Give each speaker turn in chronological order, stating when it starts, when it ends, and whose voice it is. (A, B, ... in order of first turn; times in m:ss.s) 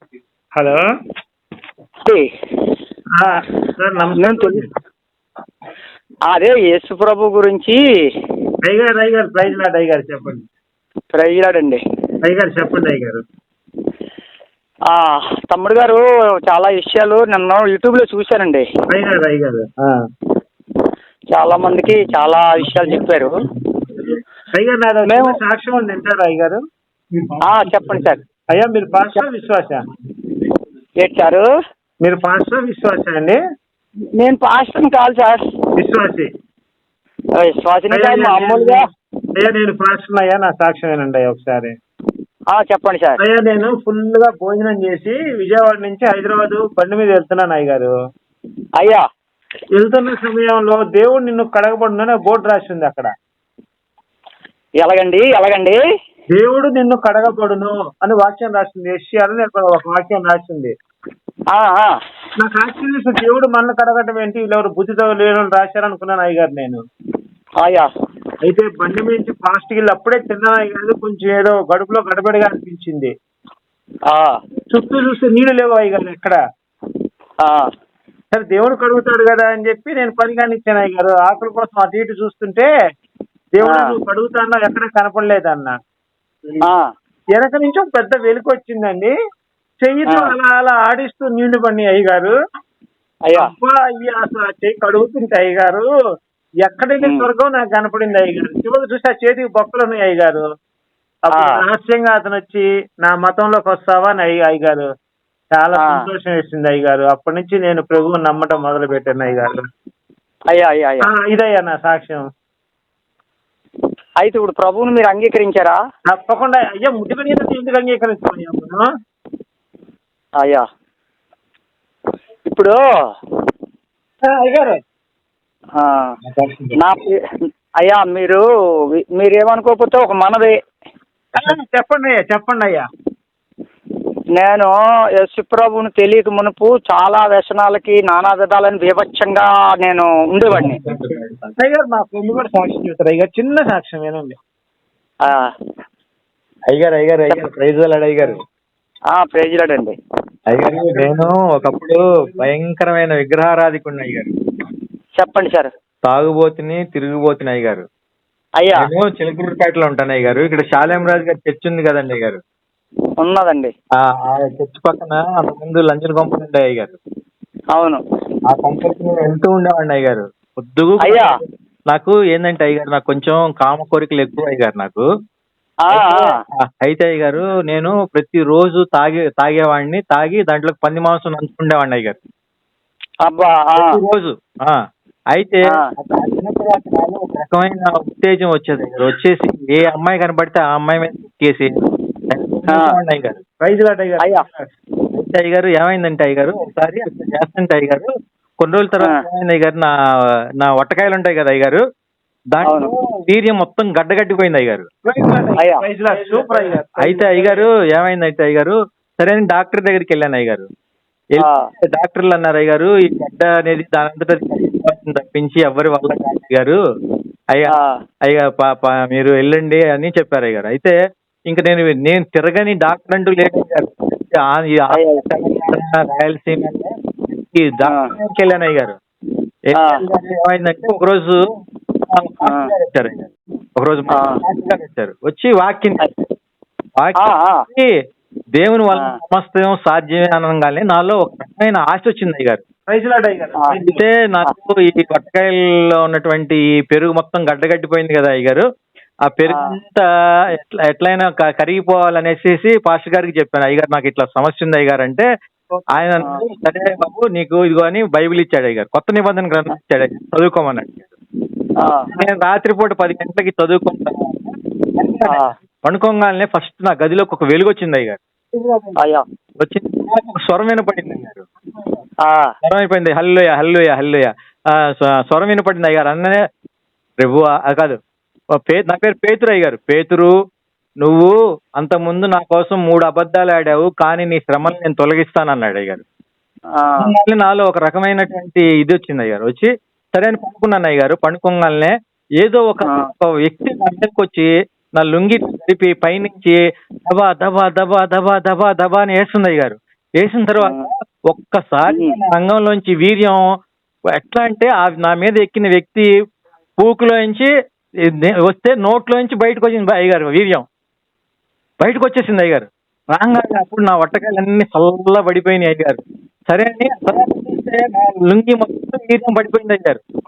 0:00.6-0:00.8 A
0:02.0-0:02.3 B
0:03.1-0:04.7 A
0:04.1-0:04.7 B
0:06.3-0:08.1 B
0:08.6-0:10.4 A
0:11.1-0:11.8 B
0:12.2-0:13.2 A
0:14.9-0:18.6 B
0:18.9-0:20.0 A
0:21.3-0:23.4 B
0:24.5-0:26.6 A
0:25.1-0:25.4 B
0:27.2-0:28.0 C
0:27.4-0:28.2 B
0:28.5-0:29.8 A
0:31.0-0:31.5 B
0:32.0-0:33.4 A
0:34.2-0:35.4 B
0:35.8-0:36.3 A
0:37.3-0:38.8 B
0:37.9-0:41.8 A
0:42.5-0:43.2 B
0:43.2-0:47.9 A
0:48.8-0:49.0 B
0:49.7-0:53.1 A
0:54.8-0:55.8 B
0:56.3-1:00.8 A
1:01.5-1:02.0 B
1:02.4-1:06.8 A
1:07.6-1:07.9 B
1:08.4-1:13.1 A
1:14.1-1:14.4 B
1:14.7-1:16.4 A
1:17.4-1:17.7 B
1:18.3-1:22.7 A
1:23.5-1:25.8 A
1:23.6-1:24.0 B
1:26.6-1:26.9 B
1:27.3-1:29.1 A
1:29.8-1:32.4 A
1:30.1-1:30.3 B
1:33.3-1:35.9 A
1:36.6-1:40.4 A
1:37.0-1:37.3 B
1:41.2-1:44.8 A
1:41.3-1:41.6 B
1:45.5-1:49.6 A
1:45.8-1:46.1 B
1:50.5-1:51.1 B
1:51.0-1:52.3 A
1:54.2-1:55.8 B
1:56.1-1:58.8 A
2:00.4-2:00.7 B
2:02.5-2:02.8 B
2:04.2-2:04.8 A
2:05.8-2:06.1 B
2:06.3-2:06.7 A
2:06.8-2:10.6 B
2:11.4-2:12.9 A
2:14.4-2:20.8 B
2:20.5-2:21.5 C
2:21.6-2:24.4 A
2:25.2-2:25.5 B
2:26.7-2:28.4 C
2:29.1-2:30.0 B
2:30.5-2:34.3 C
2:35.2-2:35.7 B
2:36.0-2:37.8 C
2:38.6-2:38.9 B
2:38.8-2:42.4 C
2:43.2-2:43.7 B
2:44.0-2:47.0 C
2:47.7-2:48.0 B
2:48.5-2:55.0 C
2:51.0-2:51.3 B
2:55.9-2:56.3 B
2:55.9-3:02.2 C
3:03.2-3:04.0 B
3:03.7-3:13.4 C
3:12.7-3:13.0 B
3:13.6-3:14.7 A
3:14.2-3:14.5 B
3:15.1-3:19.9 C
3:20.6-3:21.8 C
3:22.5-3:24.9 C
3:22.6-3:22.9 B
3:25.0-3:27.6 A
3:25.6-3:25.8 B
3:26.9-3:30.7 C
3:31.3-3:36.8 C
3:31.4-3:31.7 B
3:37.7-3:38.0 B
3:38.3-3:40.9 C
3:41.5-3:49.0 C
3:44.9-3:45.8 B
3:47.8-3:48.1 B
3:49.7-3:51.5 C
3:49.8-3:50.0 B
3:52.1-3:56.0 C
3:52.4-3:52.7 B
3:54.1-3:54.4 B
3:57.0-3:57.9 C
3:57.2-3:57.6 B
3:58.6-4:02.6 C
3:58.9-3:59.2 B
4:02.9-4:04.0 A
4:03.8-4:08.6 C
4:09.3-4:15.3 C
4:09.5-4:09.7 B
4:15.9-4:21.1 C
4:16.2-4:16.4 B
4:21.8-4:22.1 B
4:22.1-4:29.0 C
4:25.2-4:25.5 B
4:29.0-4:29.2 B
4:29.6-4:31.5 C
4:32.2-4:32.5 B
4:32.6-4:36.5 C
4:37.2-4:38.0 C
4:38.6-4:40.3 C
4:41.0-4:46.0 C
4:46.7-4:47.1 B
4:47.0-5:03.4 C
4:52.8-4:53.1 B
5:00.6-5:00.9 B
5:01.9-5:02.2 B
5:04.1-5:06.1 C
5:06.8-5:10.7 C
5:11.8-5:20.0 C